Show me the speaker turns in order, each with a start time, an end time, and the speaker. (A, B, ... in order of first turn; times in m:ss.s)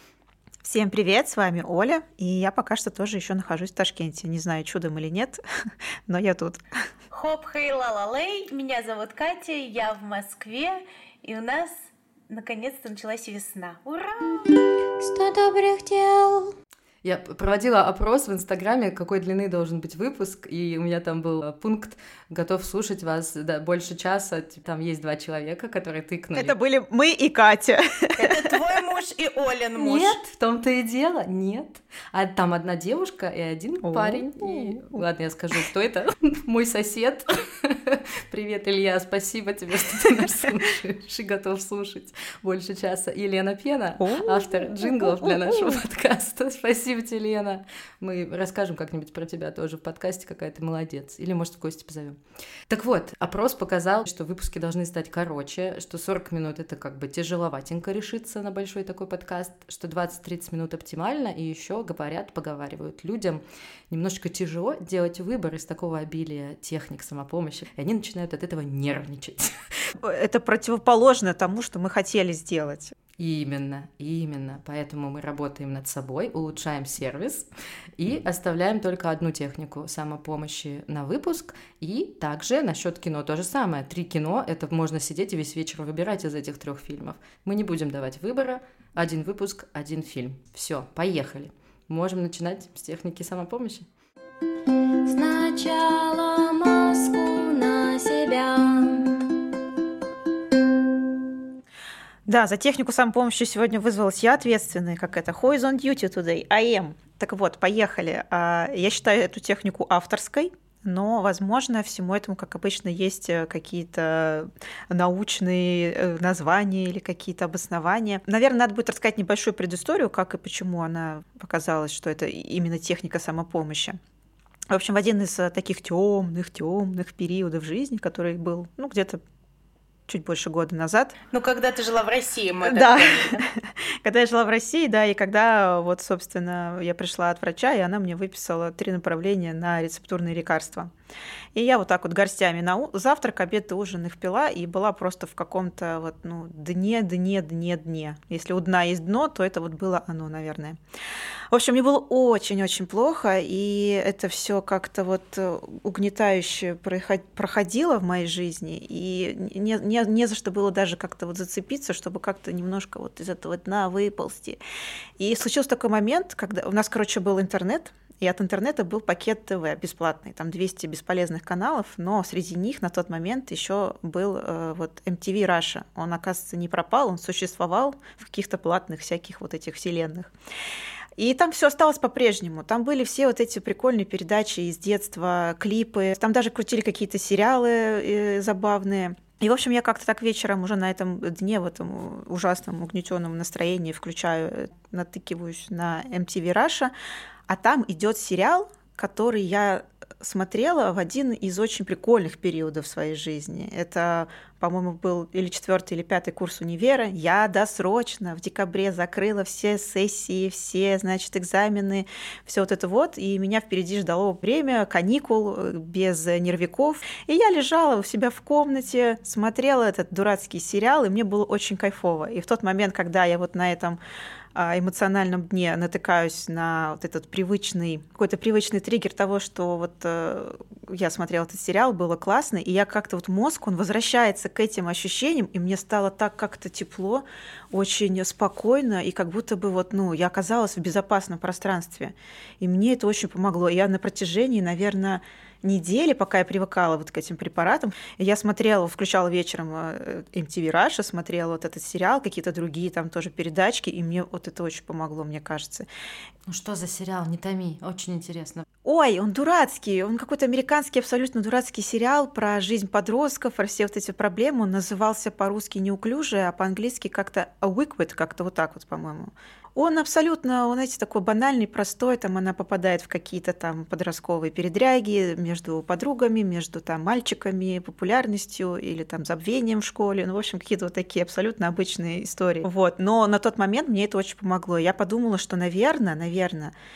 0:00.6-0:05.4 A
0:06.1-0:06.6 A
0:07.1-0:14.5 B
0:17.0-0:26.6 C
0:26.4-0:28.5 A
0:28.2-0:30.2 B
0:29.8-0:52.2 C
0:33.8-0:35.0 A
0:44.0-0:45.8 A
0:52.7-1:09.5 C
1:10.0-1:12.9 A
1:13.2-1:17.5 C
1:18.0-1:33.9 C
1:42.3-2:04.0 A
2:04.7-2:09.2 A
2:10.1-2:11.2 A
2:11.3-2:13.4 B
2:12.6-2:20.9 A
2:21.6-2:30.8 A
2:31.5-2:44.6 A
2:45.2-3:00.3 A
3:01.2-3:16.9 A
3:17.5-3:44.0 A
3:44.6-4:15.9 A
4:16.5-4:18.6 C
4:18.8-4:46.7 A